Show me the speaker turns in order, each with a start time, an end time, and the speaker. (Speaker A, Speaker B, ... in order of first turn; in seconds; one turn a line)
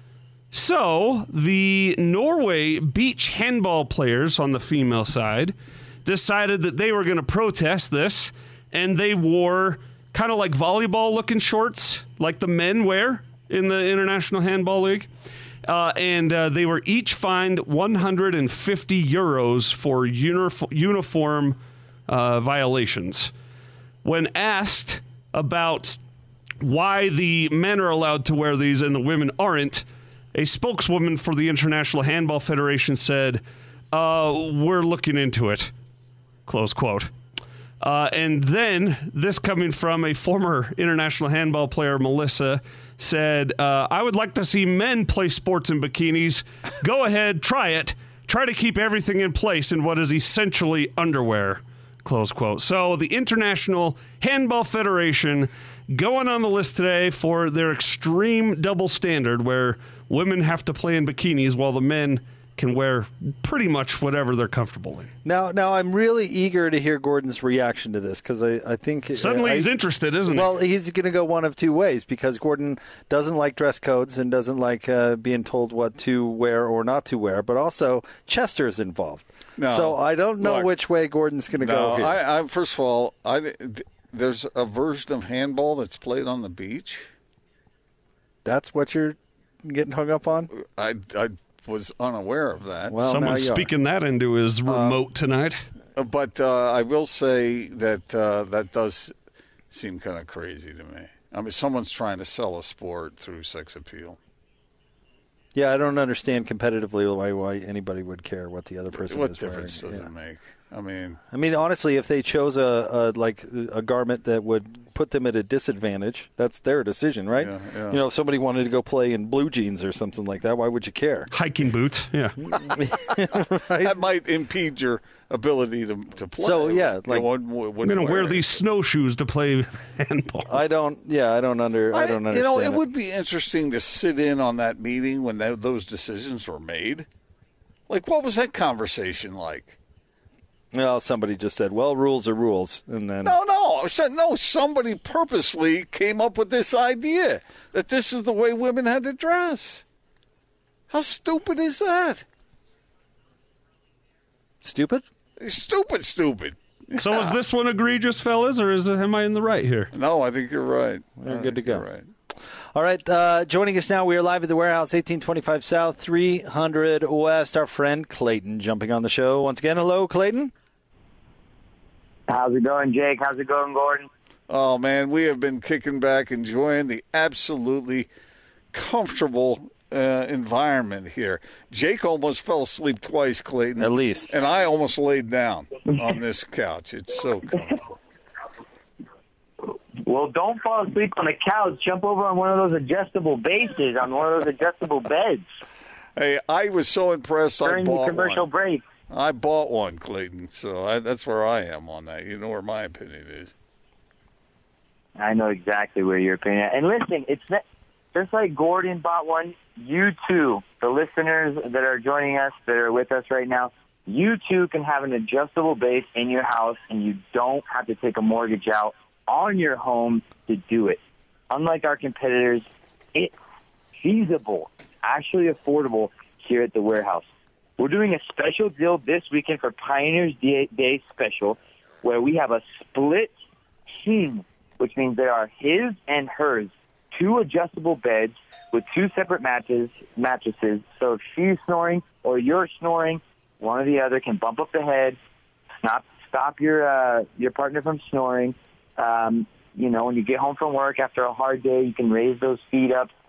Speaker A: 0.5-15.1
Speaker A: 15.7-21.6
Speaker A: 22.1-23.3
Speaker A: 24.0-26.0
Speaker A: 26.6-29.8
Speaker A: 30.4-35.7
Speaker A: 36.5-37.1
Speaker A: 37.8-65.1
Speaker B: 65.2-82.2
Speaker A: 69.1-70.5
Speaker C: 79.6-80.7
Speaker C: 81.6-87.1
Speaker B: 88.5-90.5
Speaker C: 90.5-93.0
Speaker B: 92.9-93.7
Speaker A: 93.0-95.6
Speaker C: 94.7-95.0
Speaker C: 96.0-99.1
Speaker C: 99.7-104.2
Speaker B: 105.5-110.1
Speaker C: 108.9-111.2
Speaker B: 111.3-121.3
Speaker C: 117.3-118.0
Speaker A: 121.3-122.8
Speaker B: 122.4-124.0
Speaker C: 123.7-128.6
Speaker B: 126.4-127.3
Speaker A: 127.8-130.6
Speaker B: 130.5-132.9
Speaker C: 131.9-137.1
Speaker C: 137.9-139.8
Speaker B: 140.7-143.4
Speaker C: 143.2-149.8
Speaker C: 150.9-152.2
Speaker B: 154.6-155.1
Speaker C: 155.4-157.4
Speaker A: 157.0-159.9
Speaker C: 159.9-162.1
Speaker B: 161.2-161.8
Speaker B: 162.7-170.5
Speaker D: 172.3-174.1
Speaker C: 174.5-178.1
Speaker C: 178.7-187.8
Speaker B: 183.8-184.3
Speaker D: 190.0-195.5
Speaker C: 196.2-198.5
Speaker D: 197.6-198.8
Speaker C: 199.1-203.5
Speaker D: 205.2-207.6
Speaker D: 208.1-223.3
Speaker D: 224.0-227.3
Speaker D: 227.8-233.3
Speaker D: 233.9-245.2
Speaker D: 245.8-253.1